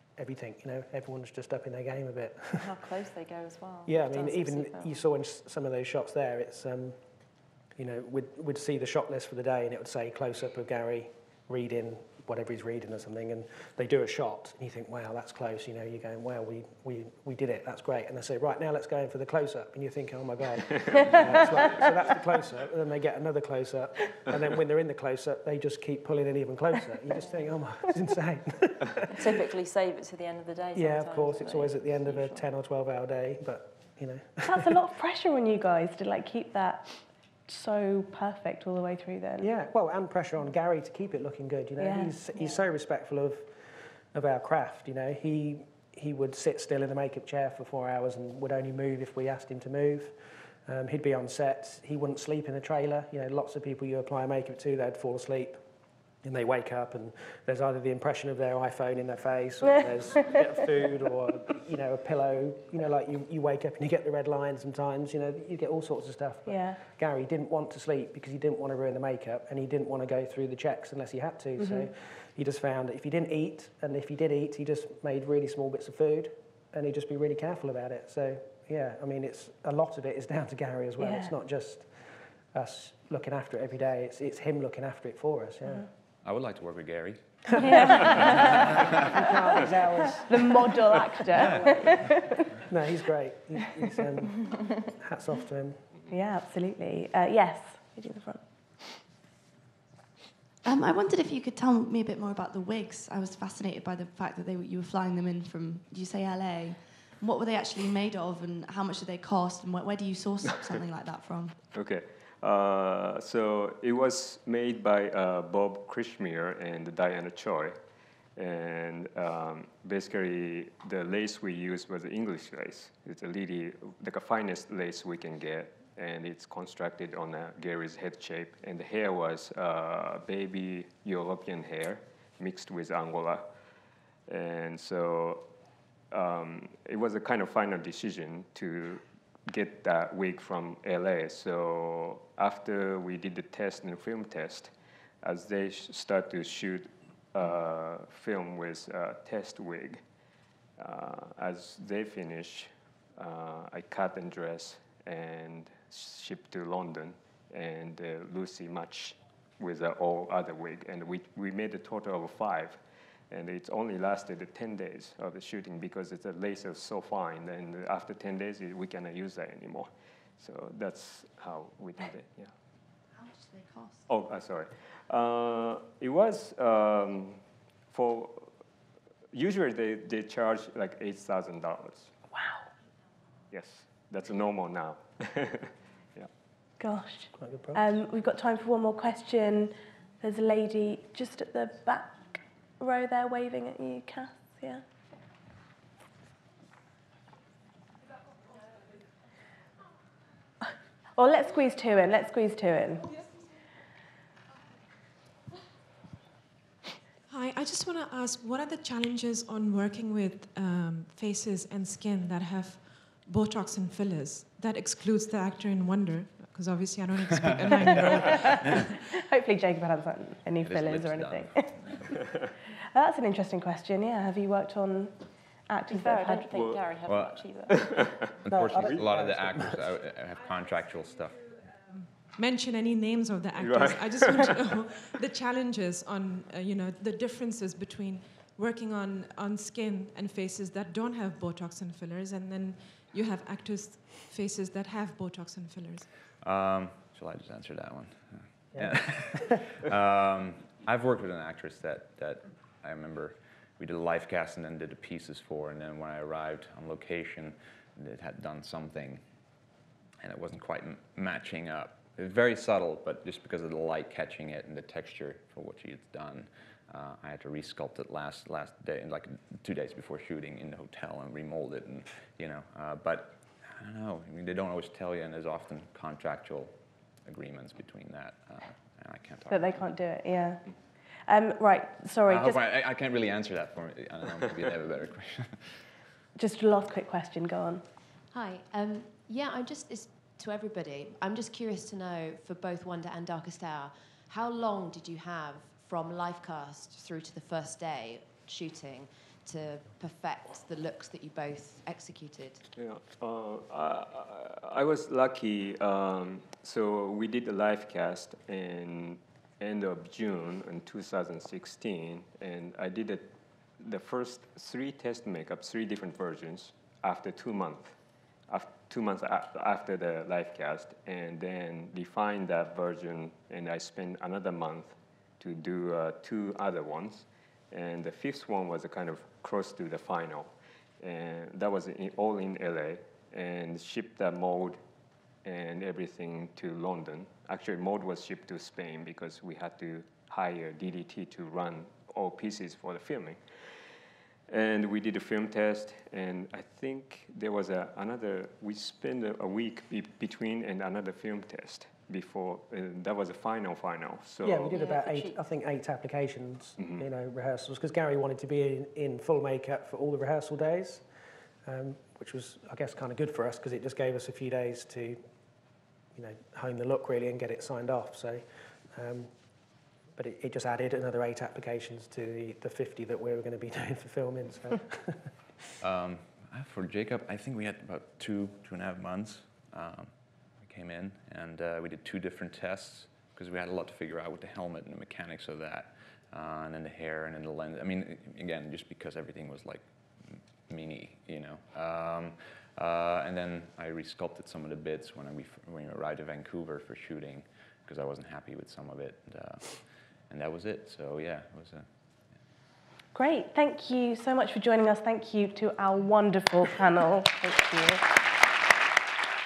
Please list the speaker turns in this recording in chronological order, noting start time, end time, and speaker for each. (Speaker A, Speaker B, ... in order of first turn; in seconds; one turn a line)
Speaker A: 0.2-2.7
Speaker B: 2.6-5.0
Speaker A: 3.9-7.0
Speaker A: 7.8-29.1
Speaker B: 29.1-32.4
Speaker A: 30.7-34.8
Speaker C: 34.4-36.9
Speaker C: 37.5-39.5
Speaker A: 39.4-55.6
Speaker C: 41.8-42.5
Speaker A: 56.2-85.9
Speaker C: 66.5-66.8
Speaker C: 71.6-71.9
Speaker C: 81.0-81.3
Speaker D: 86.2-88.9
Speaker C: 87.6-88.7
Speaker A: 87.6-95.8
Speaker C: 90.1-92.6
Speaker D: 91.3-92.0
Speaker C: 96.1-98.4
Speaker E: 100.6-111.6
Speaker F: 110.5-110.8
Speaker F: 111.7-117.8
Speaker F: 118.3-133.4
Speaker F: 134.3-135.4
Speaker F: 136.1-150.0
Speaker F: 150.8-172.5
Speaker E: 173.2-174.0
Speaker F: 174.1-178.5
Speaker F: 179.3-182.1
Speaker C: 182.3-182.7
Speaker F: 183.5-186.3
Speaker C: 186.8-194.8
Speaker A: 187.4-187.8
Speaker C: 200.7-203.1
Speaker G: 207.3-219.0
Speaker D: 217.4-218.1
Speaker C: 218.1-222.0
Speaker D: 220.6-221.9
Speaker C: 222.9-225.1
Speaker C: 225.7-226.5
Speaker B: 225.9-227.9
Speaker F: 226.5-226.8
Speaker D: 227.1-227.4
Speaker F: 227.7-229.0
Speaker D: 228.4-231.4
Speaker A: 228.5-229.9
Speaker G: 231.9-246.1
Speaker F: 233.5-234.7
Speaker D: 246.4-259.2
Speaker A: 248.7-249.6
Speaker D: 260.2-276.7
Speaker D: 277.2-279.9
Speaker C: 279.5-280.6
Speaker C: 281.3-282.6
Speaker D: 282.2-285.7
Speaker C: 286.4-287.8
Speaker H: 288.3-302.6
Speaker F: 302.7-313.3
Speaker F: 313.8-318.0
Speaker F: 318.5-334.8
Speaker F: 335.4-343.4
Speaker F: 344.5-354.8
Speaker A: 354.4-361.0
Speaker B: 354.7-355.4
Speaker F: 356.8-357.0
Speaker A: 361.6-365.2
Speaker A: 366.1-369.3
Speaker A: 370.1-375.3
Speaker D: 375.8-401.9
Speaker C: 403.1-408.0